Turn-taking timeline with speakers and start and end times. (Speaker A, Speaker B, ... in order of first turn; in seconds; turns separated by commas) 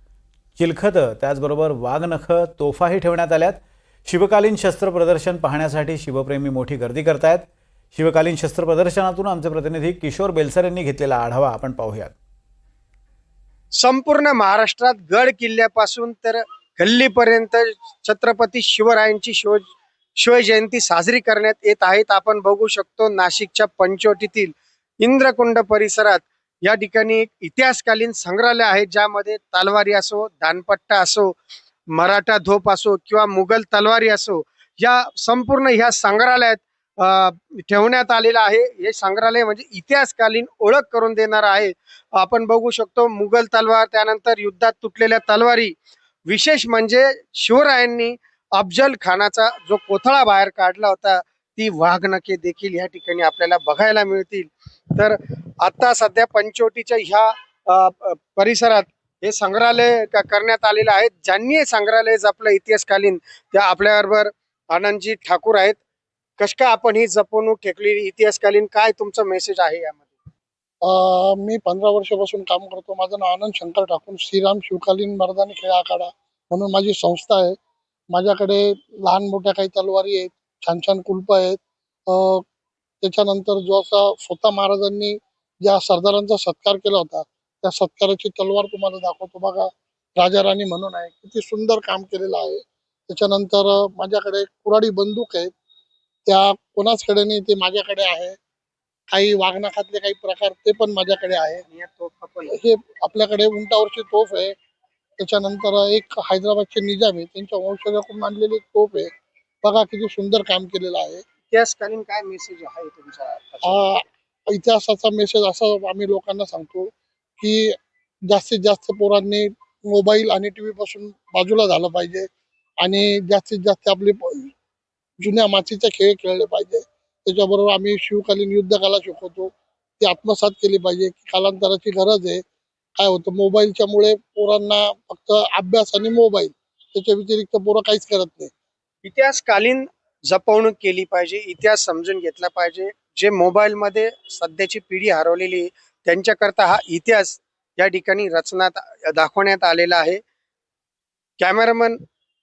Speaker A: 0.6-12.2, Speaker B: 13.8-31.4, Speaker B: 31.9-45.8, Speaker B: 46.3-65.8, Speaker B: 66.4-70.1, Speaker C: 70.8-77.5, Speaker C: 78.1-82.4, Speaker C: 83.0-95.5, Speaker C: 96.3-98.4, Speaker C: 99.1-101.6, Speaker B: 101.6-102.6, Speaker C: 102.5-104.5, Speaker C: 105.2-109.1, Speaker C: 109.6-111.2, Speaker B: 111.5-113.9, Speaker C: 113.6-117.8, Speaker C: 118.3-122.3, Speaker C: 122.8-124.5, Speaker C: 125.2-132.4, Speaker C: 133.0-138.5, Speaker B: 139.0-150.2, Speaker B: 151.4-152.0